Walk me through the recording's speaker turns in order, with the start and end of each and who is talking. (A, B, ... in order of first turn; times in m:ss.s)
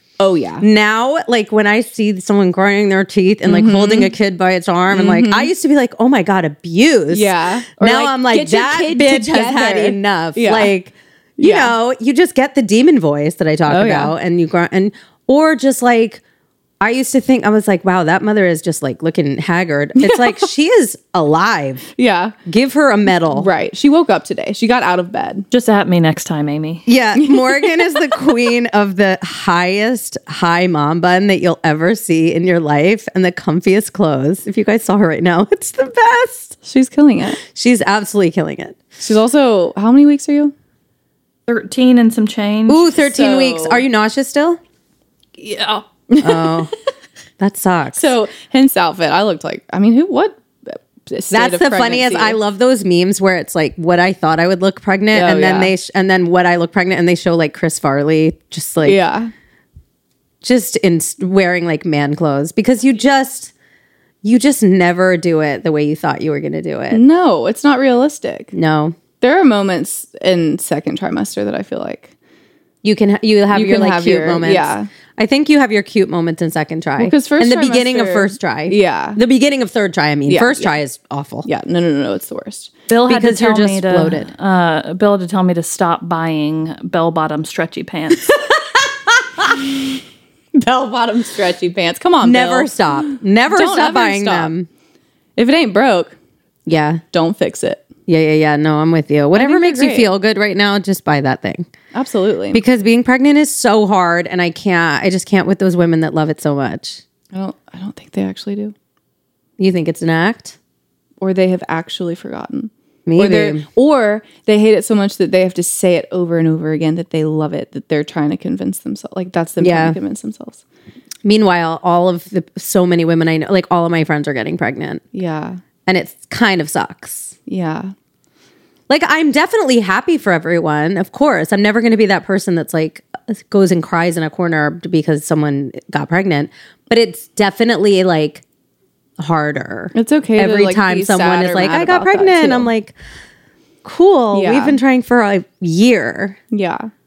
0:00.2-0:00.6 A
0:00.6-0:16.2 B
0:03.4-0:04.1 A
0:04.9-0:05.5 A
0:07.1-0:10.7 A
0:11.4-0:11.7 A
0:13.7-0:14.1 A
0:16.8-0:21.9 B
0:20.0-0:20.5 A
0:22.0-0:22.4 A
0:22.4-0:23.5 B
0:23.3-0:25.4 A
0:25.5-0:26.8 C
0:26.8-0:36.6 B
0:27.2-0:28.3 A
0:36.6-0:37.4 A
0:37.4-0:38.8 B
0:39.0-0:40.5 A
0:41.5-0:43.0 C
0:42.7-0:44.6 B
0:43.0-0:43.8 A
0:45.4-0:45.8 C
0:46.1-0:46.7 A
0:46.2-0:46.7 B
0:47.4-0:48.1 B
0:48.0-0:52.4 A
0:51.3-0:59.0 B
0:55.1-0:55.7 A
0:58.8-0:59.3 A
1:00.4-1:03.5 B
1:04.2-1:07.0 B
1:06.9-1:08.5 A
1:08.5-1:09.0 B
1:09.2-1:12.1 A
1:12.8-1:21.5 B
1:13.5-1:14.9 A
1:17.0-1:19.2 A
1:20.3-1:20.8 A
1:21.4-1:22.7 A
1:22.9-1:28.4 C
1:23.1-1:24.3 B
1:30.5-1:32.7 A
1:32.2-1:34.7 B
1:33.5-1:34.5 A
1:35.4-1:36.2 A
1:36.6-1:37.0 B
1:37.1-1:37.8 A
1:38.1-1:41.7 B
1:39.3-1:40.1 A
1:41.9-1:42.6 A
1:42.5-1:47.0 B
1:47.3-1:48.7 A
1:49.6-1:50.6 B
1:51.2-2:00.6 A
1:53.0-1:53.6 B
1:59.6-2:00.0 B
2:01.2-2:05.0 B
2:05.1-2:05.6 A
2:05.8-2:07.4 B
2:07.5-2:07.9 A
2:08.9-2:18.4 B
2:19.2-2:22.9 B
2:19.9-2:22.7 A
2:23.8-2:26.4 B
2:24.3-2:24.8 A
2:26.5-2:26.9 A